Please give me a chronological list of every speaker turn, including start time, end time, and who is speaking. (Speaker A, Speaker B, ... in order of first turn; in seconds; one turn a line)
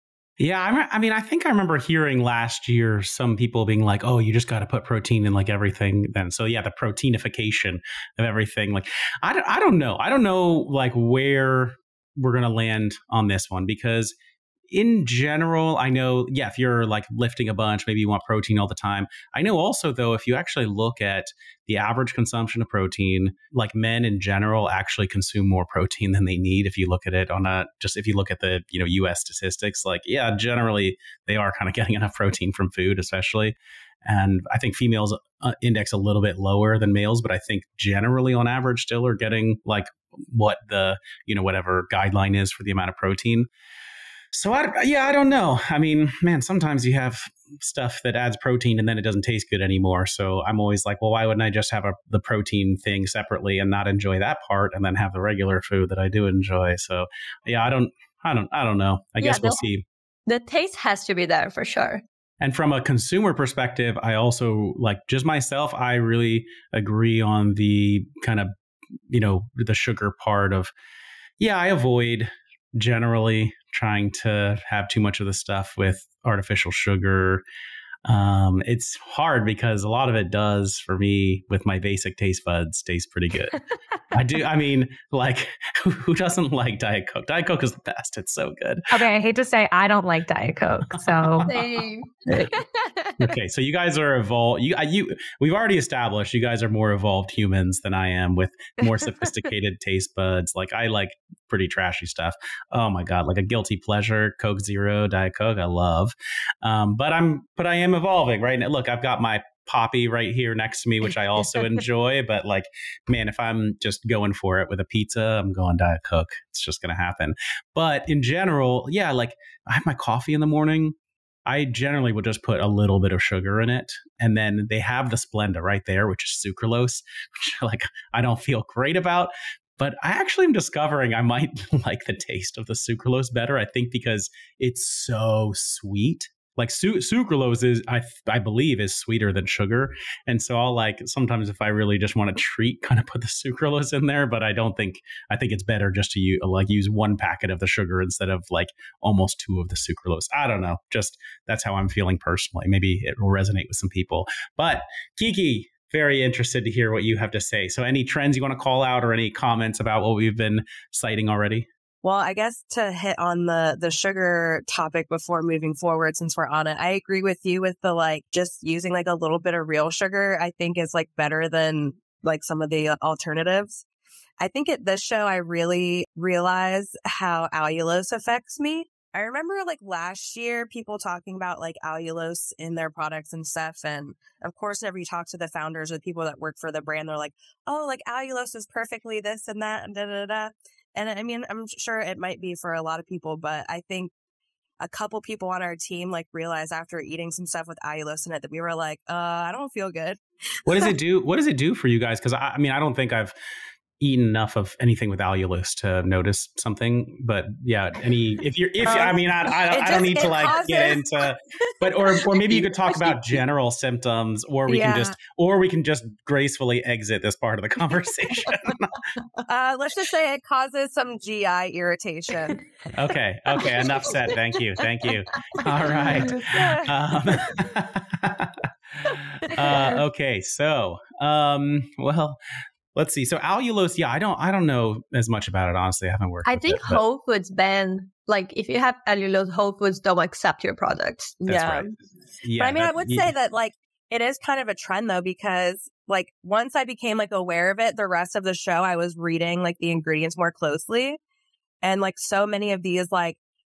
Speaker A: 0.4-14.1
Speaker A: 14.7-43.5
Speaker A: 44.3-59.8
Speaker B: 59.2-59.6
Speaker B: 60.3-62.0
Speaker A: 62.4-68.5
Speaker A: 69.1-70.7
Speaker A: 71.4-77.4
Speaker A: 78.0-83.6
Speaker A: 84.1-88.9
Speaker C: 88.9-91.5
Speaker A: 90.9-91.7
Speaker B: 91.5-92.9
Speaker A: 93.2-120.9
Speaker A: 121.5-161.7
Speaker D: 162.0-173.8
Speaker D: 174.4-194.1
Speaker D: 194.8-200.2
Speaker A: 200.7-203.3
Speaker A: 204.0-218.9
Speaker D: 208.8-211.0
Speaker D: 211.7-213.2
Speaker D: 214.7-215.1
Speaker D: 219.4-222.6
Speaker A: 222.9-232.4
Speaker D: 223.8-224.1
Speaker D: 226.5-226.8
Speaker A: 232.9-237.0
Speaker B: 236.4-241.4
Speaker D: 241.4-241.9
Speaker A: 241.5-241.9
Speaker A: 242.4-243.3
Speaker D: 242.6-251.2
Speaker D: 251.8-253.4